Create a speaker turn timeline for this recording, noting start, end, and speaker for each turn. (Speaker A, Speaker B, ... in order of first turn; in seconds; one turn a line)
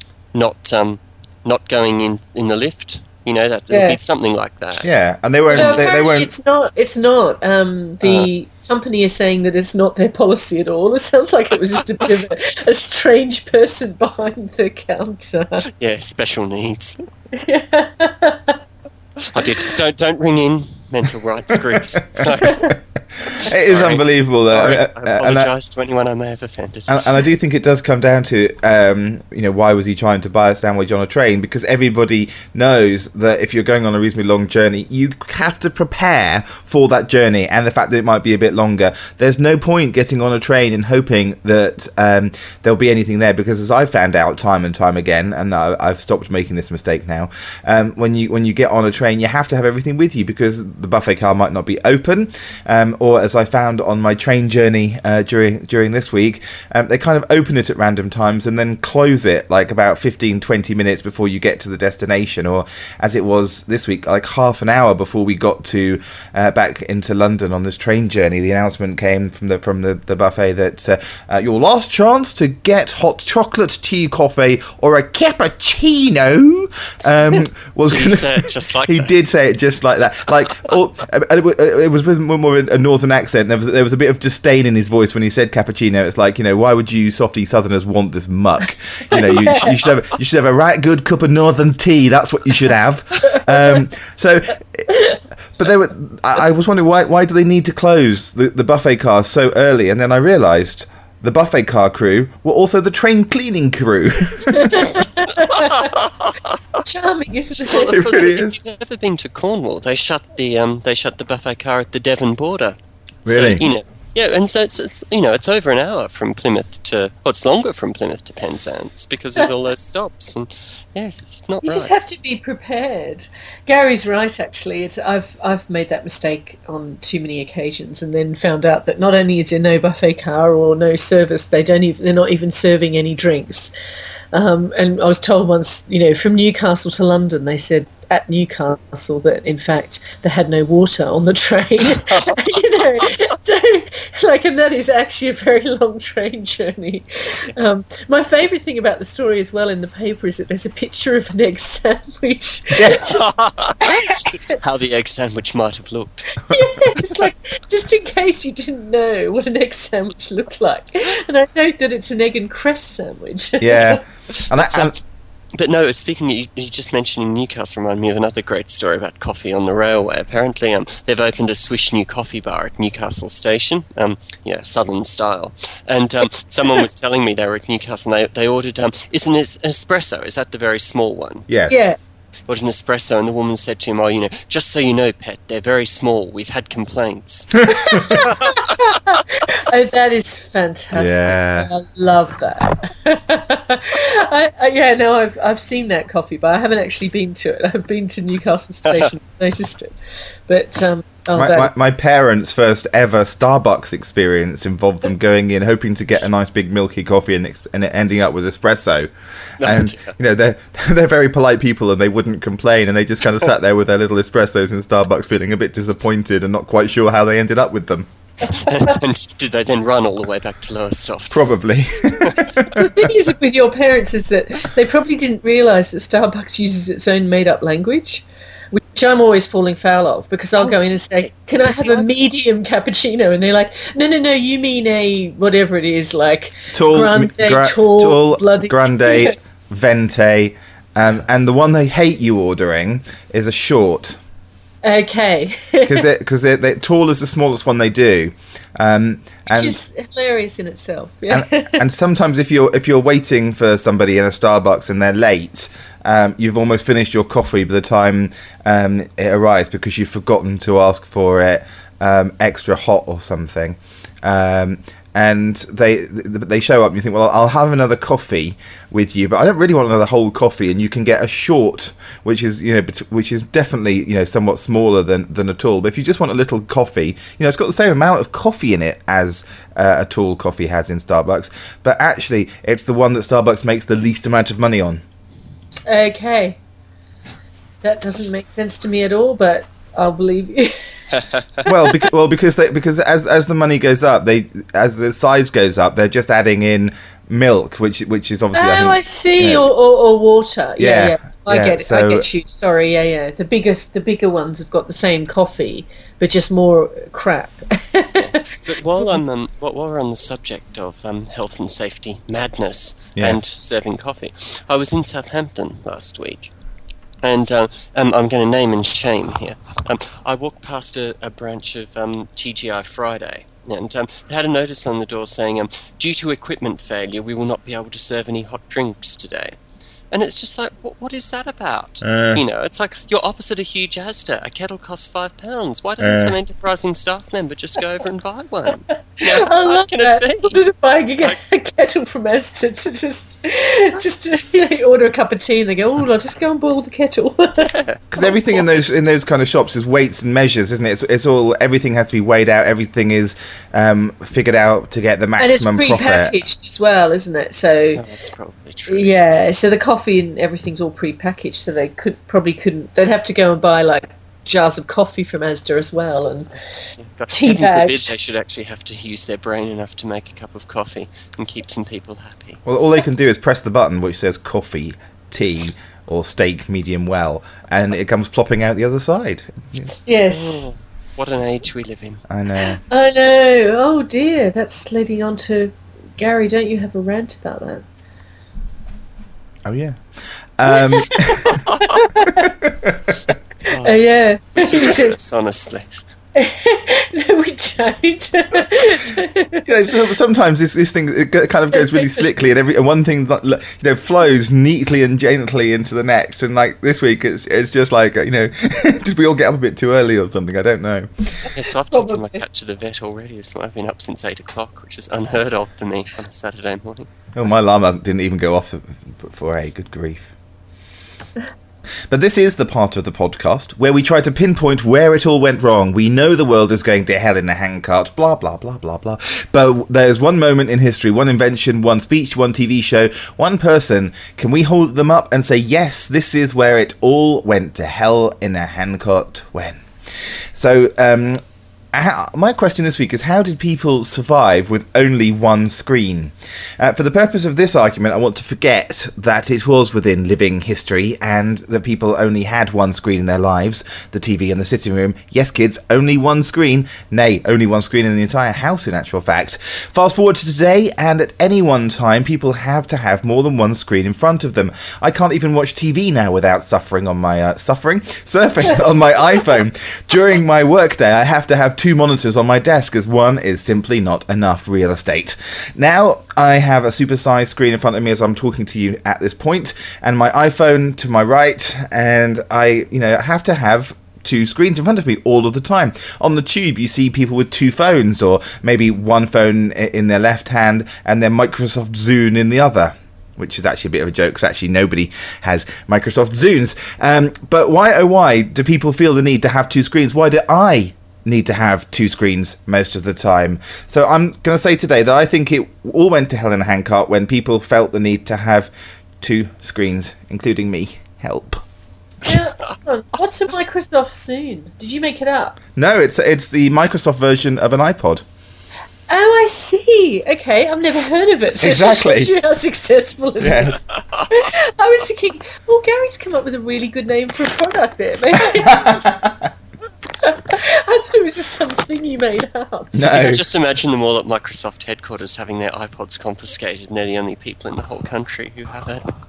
Speaker A: 0.3-4.9
Speaker B: 3.7-4.0
Speaker C: 4.8-6.3
Speaker B: 5.5-15.6
Speaker A: 5.5-6.0
Speaker A: 8.0-8.3
Speaker A: 15.8-17.0
Speaker B: 17.3-18.6
Speaker A: 19.2-27.2
Speaker C: 21.5-25.5
Speaker B: 22.4-22.7
Speaker C: 26.9-94.9
Speaker A: 77.9-79.1
Speaker B: 89.1-89.7
Speaker B: 94.9-95.2
Speaker C: 95.5-105.0
Speaker B: 104.5-106.0
Speaker A: 105.8-106.3
Speaker B: 106.8-108.3
Speaker A: 107.6-121.9
Speaker C: 107.7-108.6
Speaker C: 113.2-113.6
Speaker B: 121.6-133.7
Speaker B: 134.3-153.3
Speaker A: 141.8-142.5
Speaker C: 152.7-153.1
Speaker A: 153.0-156.4
Speaker B: 153.8-154.6
Speaker B: 156.5-164.0
Speaker A: 157.0-157.3
Speaker C: 163.6-164.9
Speaker A: 164.3-164.9
Speaker A: 165.5-181.4
Speaker C: 181.5-181.9
Speaker B: 181.7-182.0
Speaker A: 182.5-189.2
Speaker B: 187.6-199.9
Speaker C: 187.7-188.2
Speaker C: 190.9-191.7
Speaker B: 200.5-201.8
Speaker C: 201.3-218.1
Speaker A: 209.6-210.1
Speaker A: 218.5-221.5
Speaker C: 221.3-222.9
Speaker A: 222.0-222.6
Speaker B: 222.6-239.3
Speaker A: 230.6-232.1
Speaker C: 236.7-244.2
Speaker B: 244.8-246.1
Speaker C: 245.8-249.8
Speaker B: 249.5-251.8
Speaker C: 251.3-285.0
Speaker B: 285.9-286.6
Speaker B: 287.8-290.7
Speaker A: 291.1-291.6
Speaker B: 291.6-292.0
Speaker C: 291.7-299.7
Speaker B: 298.5-308.4
Speaker C: 300.8-302.3
Speaker A: 308.2-316.5
Speaker C: 313.1-313.5
Speaker A: 317.2-329.6
Speaker A: 330.1-341.4
Speaker C: 332.0-332.4
Speaker C: 336.0-336.4
Speaker B: 339.2-347.7
Speaker A: 347.6-349.0
Speaker C: 348.1-356.4
Speaker B: 355.4-358.0
Speaker A: 358.0-359.1
Speaker B: 358.9-366.5
Speaker A: 367.0-372.6
Speaker B: 367.3-368.1
Speaker C: 372.6-379.9
Speaker B: 379.9-380.7
Speaker A: 380.3-382.2
Speaker C: 382.3-382.8
Speaker B: 382.9-387.8
Speaker C: 389.6-390.0
Speaker C: 390.6-391.6
Speaker B: 390.7-392.5
Speaker C: 392.3-393.3
Speaker A: 393.7-394.0
Speaker B: 393.7-395.2
Speaker A: 394.6-395.9
Speaker B: 396.3-399.7
Speaker C: 399.6-411.5
Speaker B: 401.7-402.4
Speaker A: 411.5-417.1
Speaker B: 411.9-412.4
Speaker C: 417.3-420.3
Speaker C: 422.1-441.4
Speaker C: 441.9-511.6
Speaker B: 512.2-515.6
Speaker C: 515.8-518.2
Speaker B: 519.1-529.1
Speaker C: 521.6-522.3
Speaker C: 523.4-523.8
Speaker C: 528.6-529.5
Speaker B: 530.2-533.4
Speaker C: 532.9-533.4
Speaker A: 533.1-539.0